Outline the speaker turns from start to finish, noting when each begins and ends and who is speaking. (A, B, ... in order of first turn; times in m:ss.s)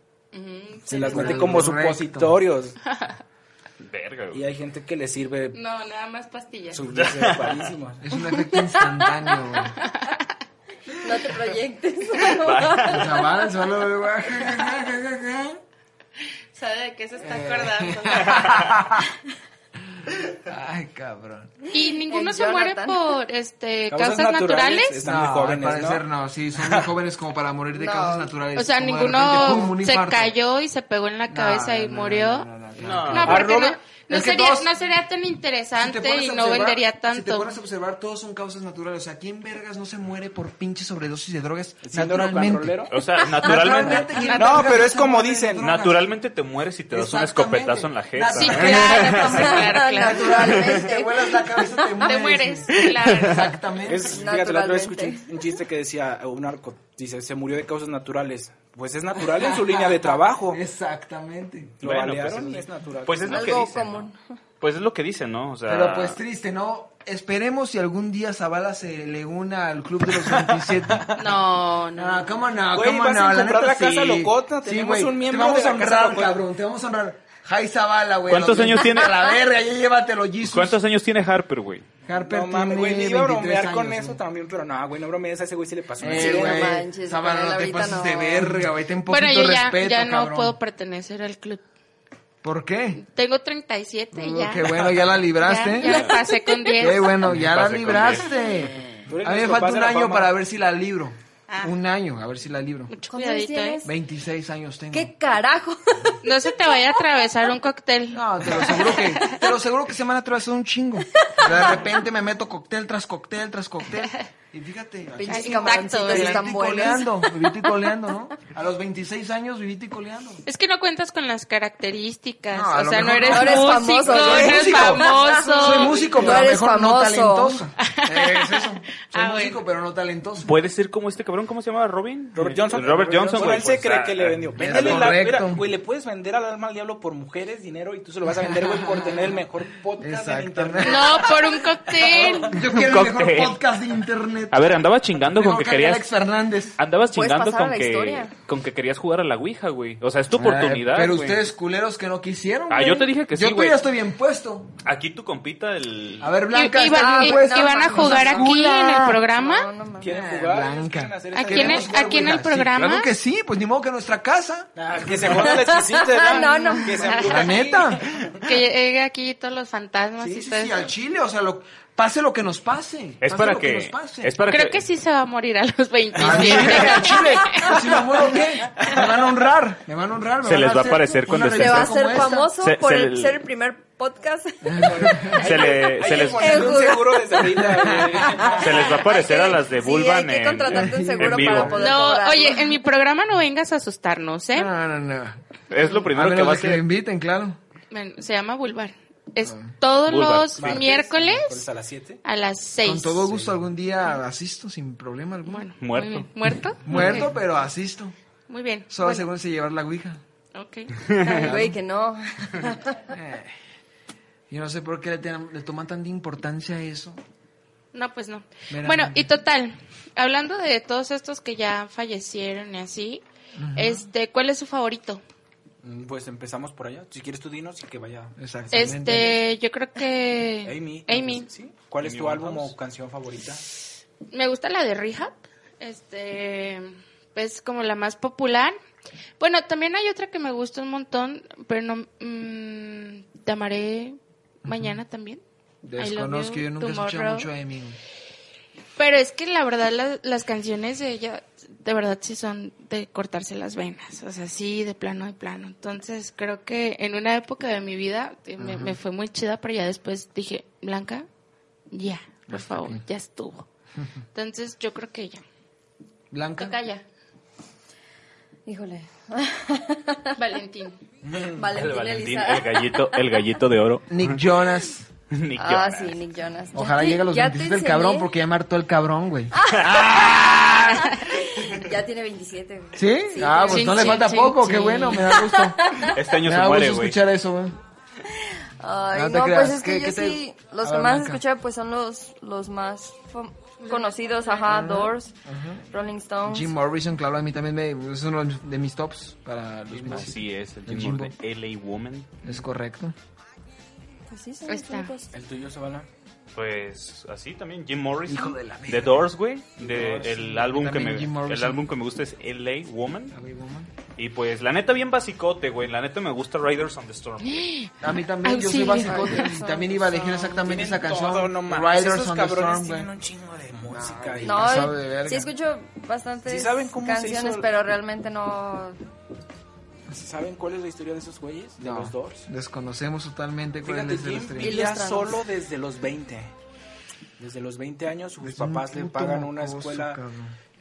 0:00.3-0:01.7 A
0:00.9-0:02.8 B
0:01.0-0:02.3 C
0:02.9-0:03.2 A
0:03.8-0:04.4 D
0:04.3-0:05.6 B
0:05.5-0:06.8 A
0:06.7-0:08.1 B
0:06.9-0:07.6 D
0:08.0-0:09.8 C
0:08.3-0:09.4 E
0:09.8-0:10.2 A
0:11.0-0:13.1 E
0:12.2-0:13.2 D
0:12.9-0:15.6 C
0:16.5-0:18.8 A
0:17.2-0:19.1 C
0:20.0-0:21.6 C
0:21.7-0:25.0 A
0:21.7-0:23.2 E
0:23.9-0:26.9 B
0:25.0-0:30.3 C
0:27.7-0:28.3 E
0:28.5-0:32.5 A
0:31.3-0:33.4 C
0:32.8-0:33.4 D
0:33.1-0:37.5 A
0:33.2-0:33.8 B
0:34.1-0:34.7 C
0:35.8-0:46.1 C
0:41.8-0:42.9 B
0:42.9-0:44.3 D
0:43.8-0:44.9 A
0:44.3-0:45.7 B
0:45.6-0:49.6 D
0:46.9-0:54.1 C
0:48.3-0:50.6 A
0:49.2-0:52.1 E
0:52.0-0:53.6 A
0:53.8-1:00.6 B
0:54.0-0:55.3 E
0:59.3-0:59.9 C
1:00.5-1:01.7 C
1:01.8-1:03.7 B
1:01.8-1:04.1 D
1:03.3-1:04.2 E
1:04.6-1:06.2 D
1:05.7-1:11.3 C
1:10.1-1:11.1 B
1:11.1-1:12.3 A
1:12.0-1:20.8 C
1:12.7-1:16.4 B
1:18.3-1:19.3 D
1:20.4-1:21.8 D
1:22.0-1:24.2 C
1:22.2-1:26.8 B
1:26.0-1:30.5 C
1:26.0-1:28.5 E
1:29.1-1:31.6 A
1:32.4-1:33.0 C
1:32.9-1:37.2 A
1:34.1-1:36.2 C
1:36.8-1:42.9 C
1:37.2-1:38.3 D
1:39.0-1:40.3 B
1:41.5-1:41.7 A
1:42.9-1:43.8 A
1:43.1-1:43.9 E
1:43.8-1:45.1 C
1:44.9-1:46.2 E
1:46.2-1:49.4 A
1:48.1-2:00.4 C
1:51.2-1:51.9 E
1:55.1-1:57.9 E
1:55.3-1:57.0 A
2:00.4-2:06.2 A
2:02.5-2:10.5 C
2:03.2-2:07.7 E
2:05.4-2:06.5 B
2:07.8-2:09.6 A
2:10.4-2:15.2 D
2:12.3-2:22.6 B
2:14.6-2:15.6 C
2:18.3-2:19.4 C
2:20.0-2:21.2 C
2:20.8-2:22.5 A
2:22.5-2:26.8 C
2:22.7-2:23.6 D
2:24.5-2:26.1 D
2:26.8-2:31.4 D
2:27.1-2:28.3 E
2:30.3-2:34.7 C
2:32.7-2:33.8 D
2:34.8-2:36.3 D
2:36.2-2:39.0 C
2:36.5-2:39.7 A
2:36.9-2:40.1 E
2:40.0-2:42.3 B
2:40.1-2:45.5 C
2:41.3-2:43.1 A
2:44.8-2:48.5 B
2:45.5-2:47.3 E
2:46.6-2:47.5 A
2:47.2-2:48.0 C
2:48.4-2:50.9 A
2:50.2-2:54.3 C
2:53.2-2:54.8 D
2:54.5-2:58.3 A
2:56.2-3:02.5 C
2:56.4-2:56.8 D
3:00.4-3:03.4 D
3:01.3-3:05.4 E
3:04.6-3:05.6 C
3:04.8-3:08.9 B
3:05.3-3:06.8 D
3:06.3-3:12.8 E
3:07.4-3:08.5 C
3:08.6-3:11.8 D
3:10.7-3:11.8 C
3:11.8-3:14.7 A
3:14.5-3:17.6 C
3:15.7-3:16.8 D
3:17.9-3:21.6 A
3:19.4-3:19.7 C
3:20.1-3:20.8 D
3:20.6-3:22.2 B
3:22.2-3:23.3 A
3:22.8-3:25.7 C
3:23.3-3:23.6 B
3:25.4-3:27.3 A
3:25.8-3:26.3 D
3:26.8-3:28.1 C
3:28.5-3:29.2 A
3:28.9-3:30.2 C
3:30.5-3:31.5 A
3:31.0-3:31.4 D
3:31.2-3:33.0 E
3:31.4-3:31.8 C
3:33.1-3:33.5 C
3:34.5-3:37.2 C
3:37.9-3:43.2 A
3:38.7-3:39.2 C
3:43.6-3:44.0 C
3:43.7-3:45.2 A
3:45.8-3:48.8 B
3:48.4-3:49.4 C
3:48.7-3:51.5 A
3:50.6-3:53.6 B
3:52.0-3:52.7 D
3:54.3-3:58.8 A
3:59.4-4:05.4 A
4:04.6-4:04.9 C
4:05.8-4:08.0 C
4:06.0-4:07.5 A
4:09.0-4:21.3 A
4:18.6-4:19.0 C
4:21.9-4:23.6 A
4:22.5-4:23.0 C
4:24.3-4:25.4 A
4:26.3-4:26.8 C
4:26.6-4:27.0 A
4:28.6-4:30.4 E
4:30.4-4:31.0 A
4:31.2-4:31.7 B
4:31.5-4:33.2 E
4:31.7-4:34.5 D
4:34.1-4:35.1 C
4:35.3-4:36.2 D
4:35.6-4:38.3 E
4:36.7-4:41.2 C
4:39.5-4:40.5 E
4:41.0-4:44.2 E
4:43.0-4:45.8 C
4:43.6-4:45.3 A
4:44.9-4:46.2 E
4:46.0-4:47.2 D
4:46.3-4:47.8 C
4:48.3-4:55.3 E
4:49.1-4:51.4 C
4:53.8-4:54.9 A
4:54.7-4:55.8 C
4:55.9-4:56.7 E
4:56.4-5:01.3 C
4:59.9-5:00.3 B
5:00.0-5:02.4 D
5:02.4-5:03.1 C
5:04.3-5:05.3 E
5:04.7-5:05.1 A
5:05.3-5:06.1 B
5:06.5-5:13.4 D
5:08.3-5:09.2 C
5:09.8-5:11.9 C
5:13.3-5:13.9 C
5:14.2-5:17.7 D
5:17.4-5:19.5 A
5:18.0-5:23.1 C
5:19.0-5:20.6 E
5:20.6-5:24.9 B
5:23.9-5:25.5 C
5:24.4-5:29.0 E
5:26.4-5:27.7 B
5:30.1-5:32.5 B
5:31.8-5:35.0 C
5:33.8-5:36.5 B
5:34.6-5:35.4 E
5:37.4-5:40.2 B
5:38.4-5:40.5 C